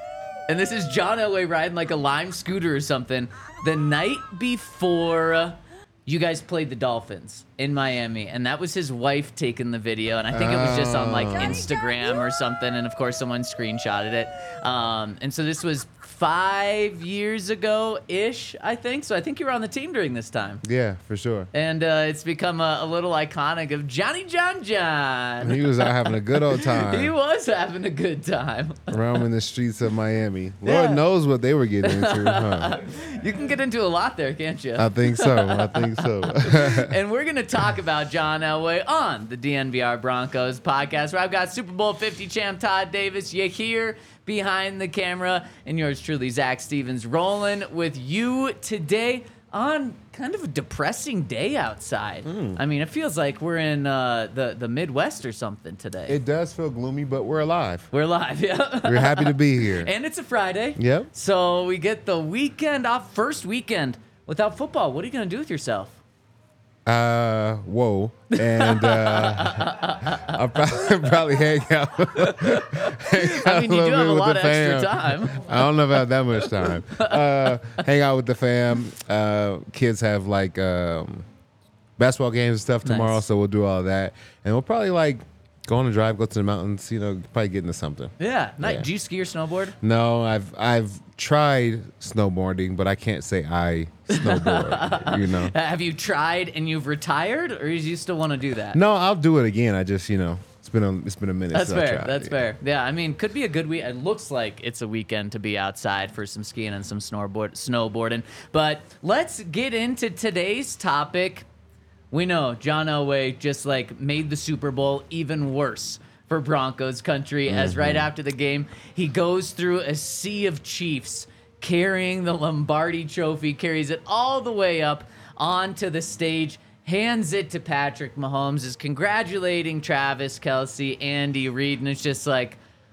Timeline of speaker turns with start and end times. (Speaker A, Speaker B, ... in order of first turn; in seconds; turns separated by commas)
Speaker A: 0.5-20.6, Speaker B: 10.3-11.6, Speaker B: 20.6-21.5, Speaker A: 21.5-28.9, Speaker B: 25.4-27.1, Speaker B: 28.9-32.8, Speaker A: 30.6-31.0, Speaker A: 31.8-56.2, Speaker B: 34.8-37.0, Speaker B: 52.2-52.6, Speaker B: 56.1-57.9, Speaker A: 57.9-66.0, Speaker B: 58.9-59.9, Speaker B: 60.8-61.1, Speaker B: 66.9-81.3, Speaker A: 68.3-70.6, Speaker A: 72.2-75.5, Speaker A: 76.7-77.2, Speaker B: 82.0-88.9, Speaker A: 82.8-83.2, Speaker A: 88.2-89.8, Speaker B: 89.8-95.5, Speaker A: 94.1-98.8, Speaker B: 98.7-102.5, Speaker A: 101.5-111.5, Speaker A: 112.1-132.6, Speaker B: 117.5-118.1